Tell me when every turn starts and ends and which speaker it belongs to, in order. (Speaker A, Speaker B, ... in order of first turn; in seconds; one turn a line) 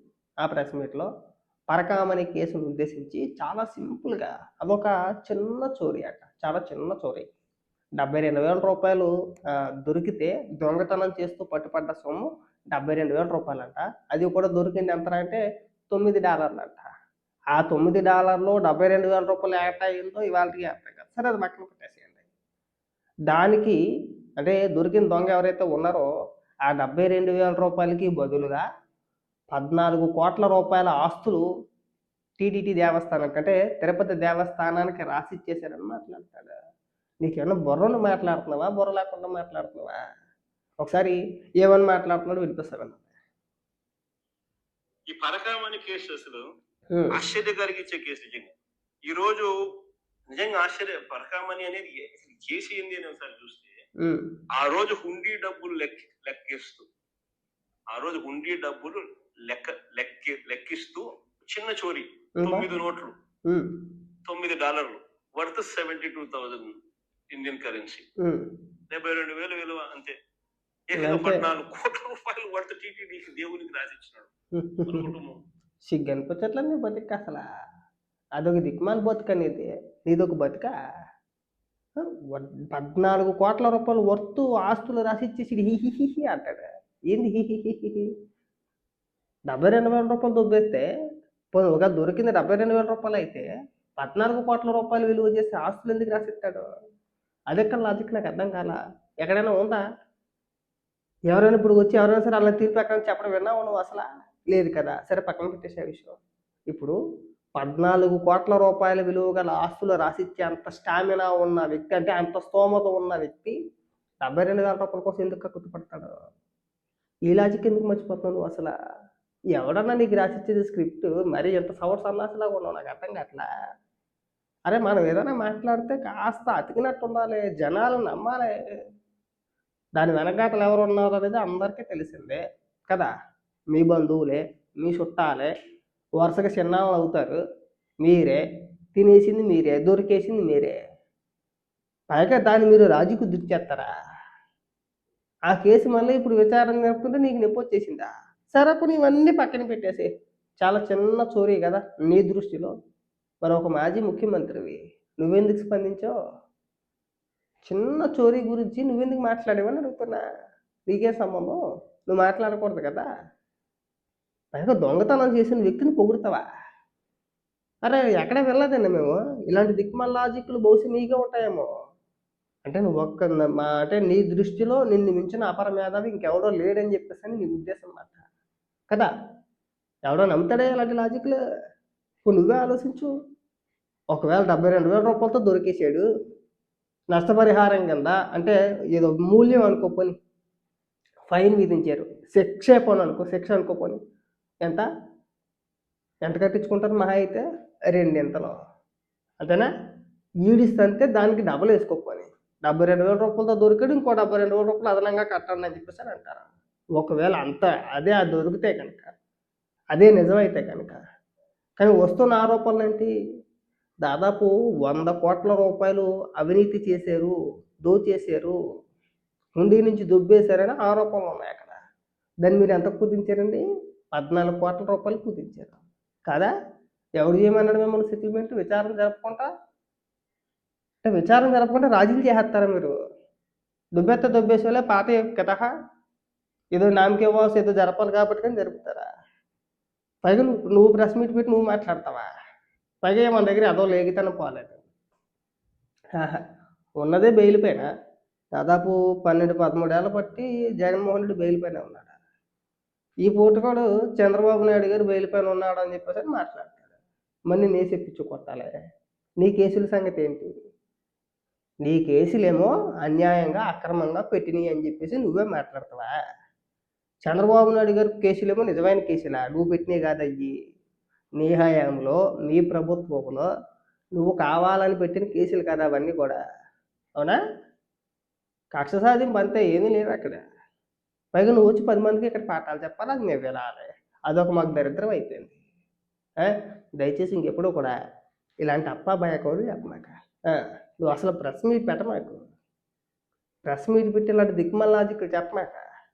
Speaker A: 0.4-1.1
Speaker A: 1.7-7.3
Speaker A: 8.0-16.9
Speaker A: 17.5-22.2
Speaker A: 23.3-23.8
Speaker A: 24.4-26.1
Speaker A: 26.6-28.6
Speaker A: 29.5-31.4
Speaker A: 32.4-36.5
Speaker A: 37.2-40.0
Speaker A: 40.8-43.0
Speaker B: 45.1-46.5
Speaker B: 47.1-48.5
Speaker B: 49.1-49.5
Speaker B: 50.3-53.8
Speaker A: 54.0-54.3
Speaker B: 54.5-56.9
Speaker B: 57.9-63.1
Speaker A: 62.4-62.7
Speaker B: 64.2-66.7
Speaker B: 67.3-68.0
Speaker A: 68.2-68.5
Speaker B: 68.9-70.1
Speaker B: 70.9-74.3
Speaker A: 71.0-71.4
Speaker A: 74.5-75.1
Speaker B: 74.8-75.4
Speaker A: 75.9-77.5
Speaker A: 78.4-80.7
Speaker A: 82.0-88.1
Speaker A: 89.5-90.9
Speaker A: 91.5-96.6
Speaker A: 97.5-99.8
Speaker A: 101.3-106.2
Speaker A: 107.6-113.5
Speaker A: 114.2-116.1
Speaker A: 117.3-118.7
Speaker A: 119.5-123.5
Speaker A: 124.7-128.5
Speaker A: 129.9-133.1
Speaker A: 133.7-135.5
Speaker A: 136.2-137.4
Speaker A: 138.0-138.4
Speaker A: 138.9-140.8
Speaker A: 142.1-143.9
Speaker A: 145.5-150.1
Speaker A: 150.6-152.7
Speaker A: 153.4-156.1
Speaker A: 157.7-160.2
Speaker A: 160.9-161.6
Speaker A: 162.1-163.0
Speaker A: 164.5-166.4
Speaker A: 167.8-171.7
Speaker A: 172.7-178.2
Speaker A: 180.1-181.3
Speaker A: 182.2-183.1
Speaker A: 184.1-186.0
Speaker A: 187.1-190.2
Speaker A: 191.3-194.0
Speaker A: 196.2-198.5
Speaker A: 199.4-199.7
Speaker A: 200.4-209.1
Speaker A: 209.9-211.0
Speaker A: 211.8-213.1
Speaker A: 214.0-218.6
Speaker A: 219.6-221.8
Speaker A: 222.4-223.6
Speaker A: 224.1-226.5
Speaker A: 227.2-229.5
Speaker A: 231.0-232.9
Speaker A: 233.9-235.7
Speaker A: 236.7-239.1
Speaker A: 240.2-242.3
Speaker A: 243.0-244.8
Speaker A: 246.2-246.4
Speaker A: 247.0-247.9
Speaker A: 248.5-252.1
Speaker A: 253.2-256.8
Speaker A: 257.5-258.8
Speaker A: 259.4-260.5
Speaker A: 261.8-266.1
Speaker A: 267.2-270.6
Speaker A: 271.4-273.4
Speaker A: 274.2-276.4
Speaker A: 278.7-280.4
Speaker A: 281.3-285.6
Speaker A: 286.4-287.9
Speaker A: 288.6-292.4
Speaker A: 293.6-295.8